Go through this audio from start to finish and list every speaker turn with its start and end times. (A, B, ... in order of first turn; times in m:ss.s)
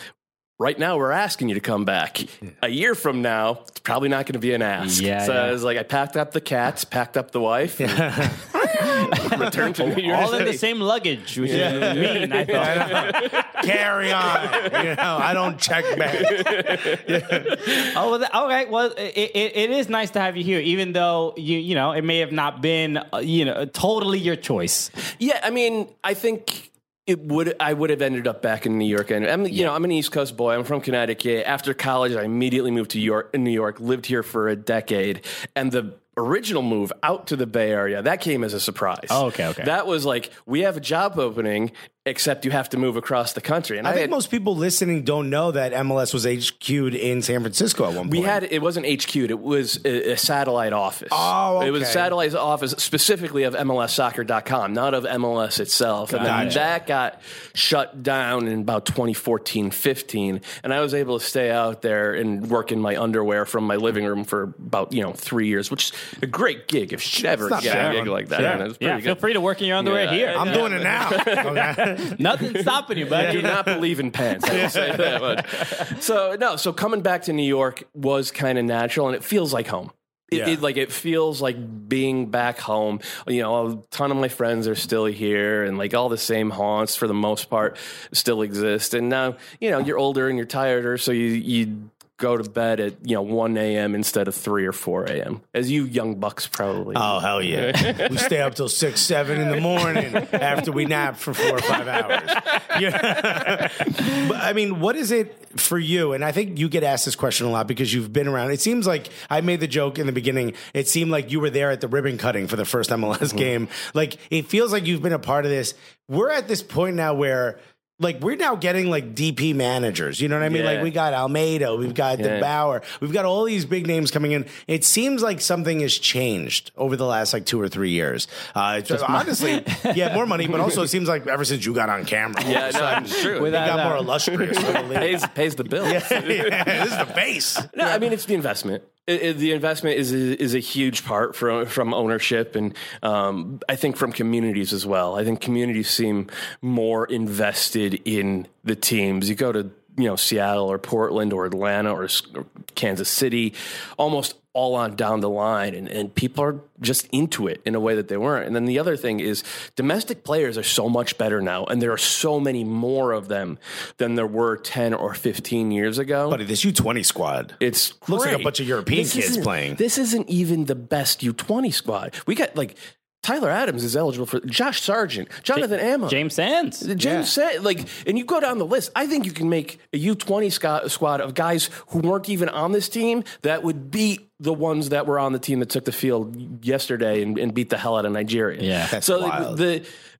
0:00.6-0:10.6 A
0:04.8-0:05.6 B
0:07.8-0:09.4 C
0:08.7-0:13.4 B
0:11.4-0:13.7 A
0:11.5-0:17.7 C
0:14.2-0:15.1 A
0:15.9-0:17.5 A
0:17.6-0:24.9 B
0:25.2-0:44.1 A
0:39.1-0:39.7 B
0:43.8-0:48.4 C
0:48.0-1:09.2 A
0:51.1-0:52.1 C
0:56.1-0:56.6 B
0:56.1-0:56.7 C
1:07.4-1:08.6 C
1:07.6-1:11.0 B
1:09.8-1:38.3 A
1:10.3-1:12.2 C
1:11.7-1:13.6 B
1:13.1-1:13.9 C
1:14.5-1:15.5 C
1:14.6-1:15.9 B
1:20.3-1:20.6 C
1:36.9-2:18.0 C
1:39.5-1:40.7 A
1:41.5-1:43.9 A
2:00.4-2:00.9 A
2:02.2-2:02.5 A
2:08.9-2:10.2 B
2:12.4-2:17.1 A
2:13.2-2:14.1 B
2:17.7-2:46.4 A
2:46.3-2:47.6 C
2:47.6-2:56.2 A
2:48.1-2:49.8 C
2:55.5-2:56.9 B
2:56.8-3:09.9 A
2:57.0-2:57.3 C
3:08.6-3:08.9 B
3:08.9-3:09.6 C